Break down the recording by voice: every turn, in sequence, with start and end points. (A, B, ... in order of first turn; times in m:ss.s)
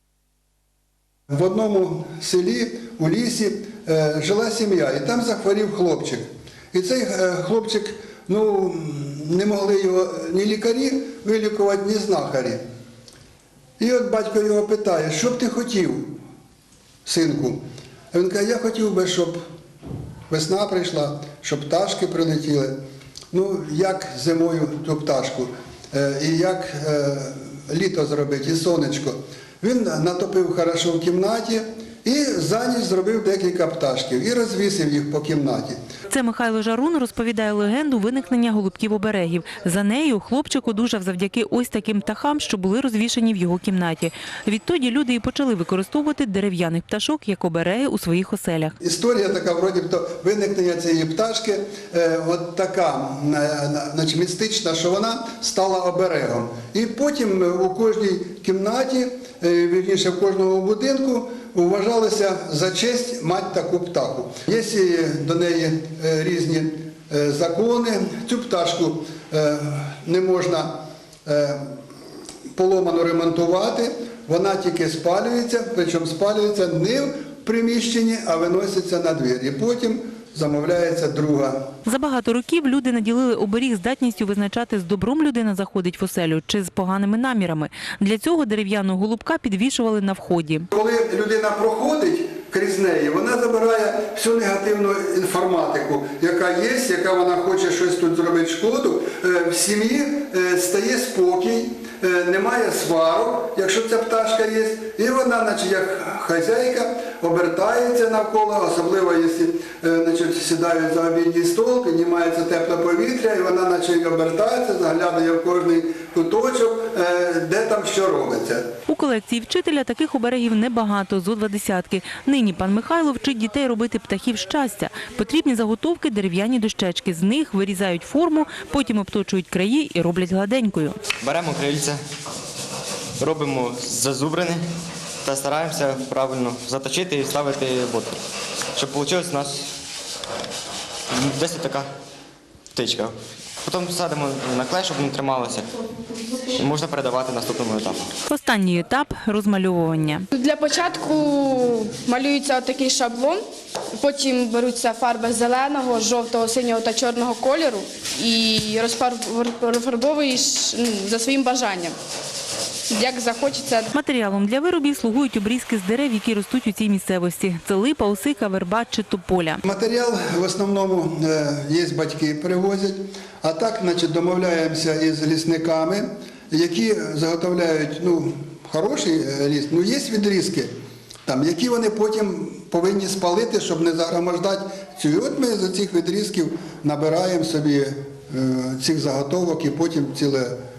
0:01.3-0:12.6 A
0:13.8-0:16.2 A
0:17.0-0:19.4 A
0:20.3-0:22.8 A
0:23.3-0:35.8 A
0:36.1-0:48.8 B
0:48.8-1:11.7 A
1:12.6-1:21.6 A
1:21.9-1:30.7 B
1:30.7-1:58.7 A
1:58.9-2:11.0 B
2:11.2-2:12.0 C
2:13.2-2:14.6 C
2:15.2-2:18.2 C
2:18.8-2:19.7 C
2:21.1-2:21.9 C
2:22.7-2:25.8 C
2:26.3-2:28.1 C
2:28.3-2:30.2 B
2:30.3-2:33.4 D
2:34.0-2:41.9 D
2:42.9-2:43.9 D
2:43.9-2:49.6 B
2:49.6-3:00.7 A
3:01.3-3:10.6 A